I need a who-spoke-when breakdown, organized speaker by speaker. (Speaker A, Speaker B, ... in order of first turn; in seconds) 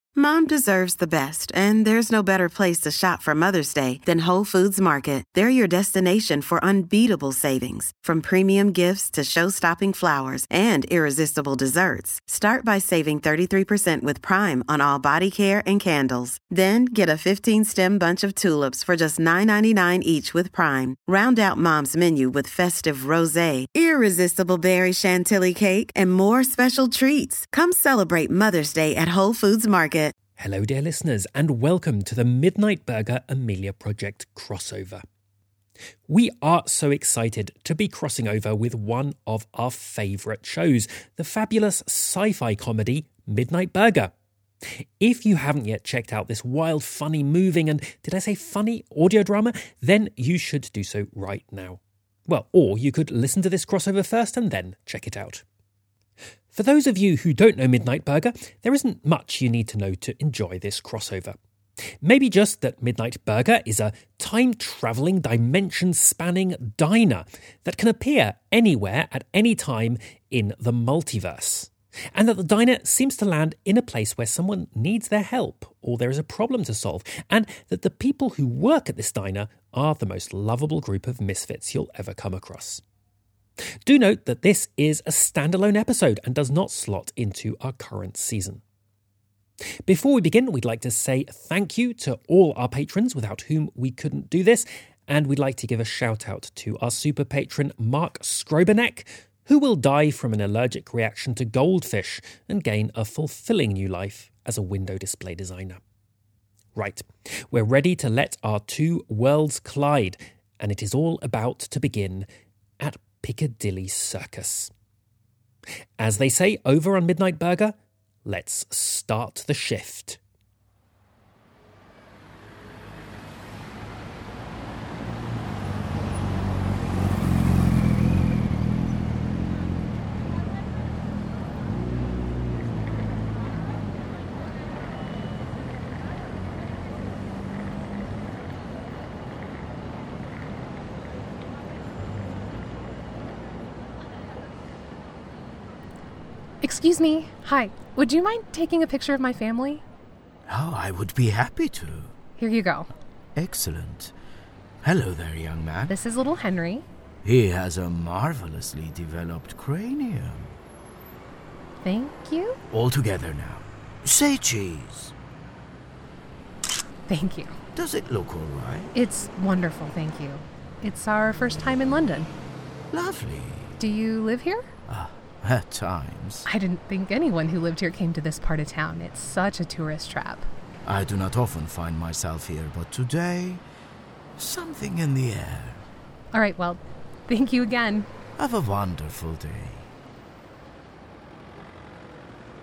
Speaker A: 0.1-30.1
Speaker B: 30.4-35.0, 36.1-44.1, 44.7-55.4, 56.5-61.4, 62.0-82.8, 83.8-88.6, 89.8-105.8, 106.7-112.3, 112.8-114.7, 116.0-120.2
Speaker C: 146.6-149.8, 152.4-152.9, 155.9-156.8, 161.8-162.6, 167.1-167.6, 168.9-172.3, 173.8-174.7, 176.5-180.5, 186.3-188.1
Speaker D: 150.4-152.2, 153.3-154.1, 154.8-155.9, 157.2-160.6, 162.7-165.1, 167.7-168.9, 172.9-173.8, 174.9-176.5, 180.8-183.6, 184.4-185.8, 188.3-189.9